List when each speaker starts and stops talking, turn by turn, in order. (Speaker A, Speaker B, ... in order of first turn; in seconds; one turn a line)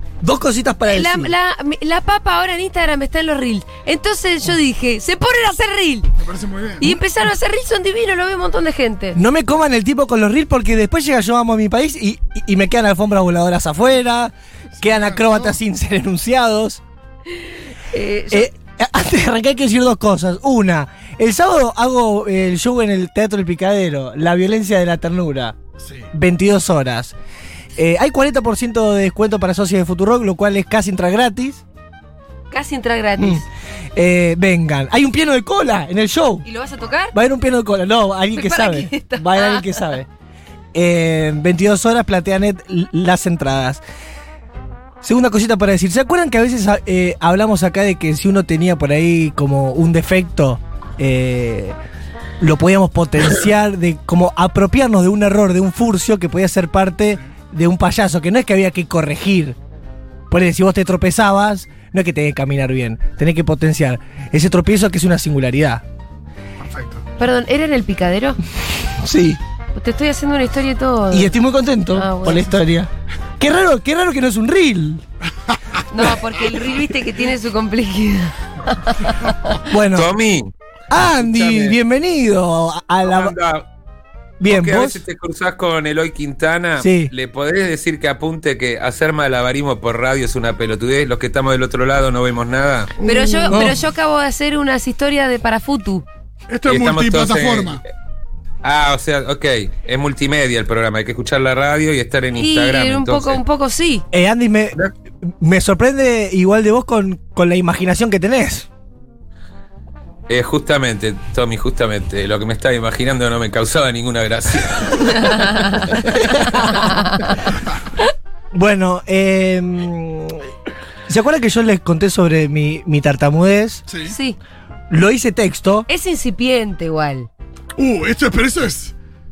Speaker A: 0.2-1.3
Speaker B: 0.9-6.1
Speaker C: 6.2-6.9
Speaker B: 6.8-9.2
Speaker A: 9.2-16.8
Speaker C: 14.8-15.6
Speaker B: 17.9-18.5
Speaker A: 18.3-25.6
Speaker C: 25.8-26.1
Speaker A: 26.1-27.1
Speaker A: 27.8-31.6
Speaker B: 32.5-33.4
Speaker A: 33.2-33.4
Speaker A: 34.0-36.5
Speaker B: 36.5-37.1
Speaker A: 37.1-40.1
Speaker B: 38.3-39.9
Speaker A: 40.7-43.8
Speaker A: 45.0-51.8
Speaker A: 52.4-59.6
Speaker A: 60.3-65.8
Speaker C: 66.6-67.0
Speaker B: 67.2-68.4
Speaker A: 68.9-69.4
Speaker B: 69.7-71.4
Speaker A: 71.1-75.0
Speaker B: 71.9-72.6
Speaker C: 75.5-76.0
Speaker B: 75.9-79.4
Speaker A: 79.7-80.1
Speaker D: 79.9-81.8
Speaker A: 80.9-83.3
Speaker D: 83.0-83.7
Speaker A: 84.4-85.0
Speaker D: 84.4-92.9
Speaker A: 86.8-87.1
Speaker C: 93.0-93.7
Speaker B: 93.1-96.0
Speaker A: 93.5-93.8
Speaker C: 96.5-97.8
Speaker D: 96.7-97.8
Speaker D: 98.6-103.4
Speaker B: 102.4-104.0
Speaker A: 104.1-108.7
Speaker D: 110.3-116.1
Speaker B: 115.3-115.7
Speaker A: 116.3-116.7
Speaker B: 116.7-117.3
Speaker A: 118.5-120.5
Speaker A: 121.1-123.8
Speaker C: 123.9-124.1
Speaker B: 124.1-124.4
Speaker A: 124.9-125.9
Speaker B: 125.9-127.3
Speaker C: 127.8-128.9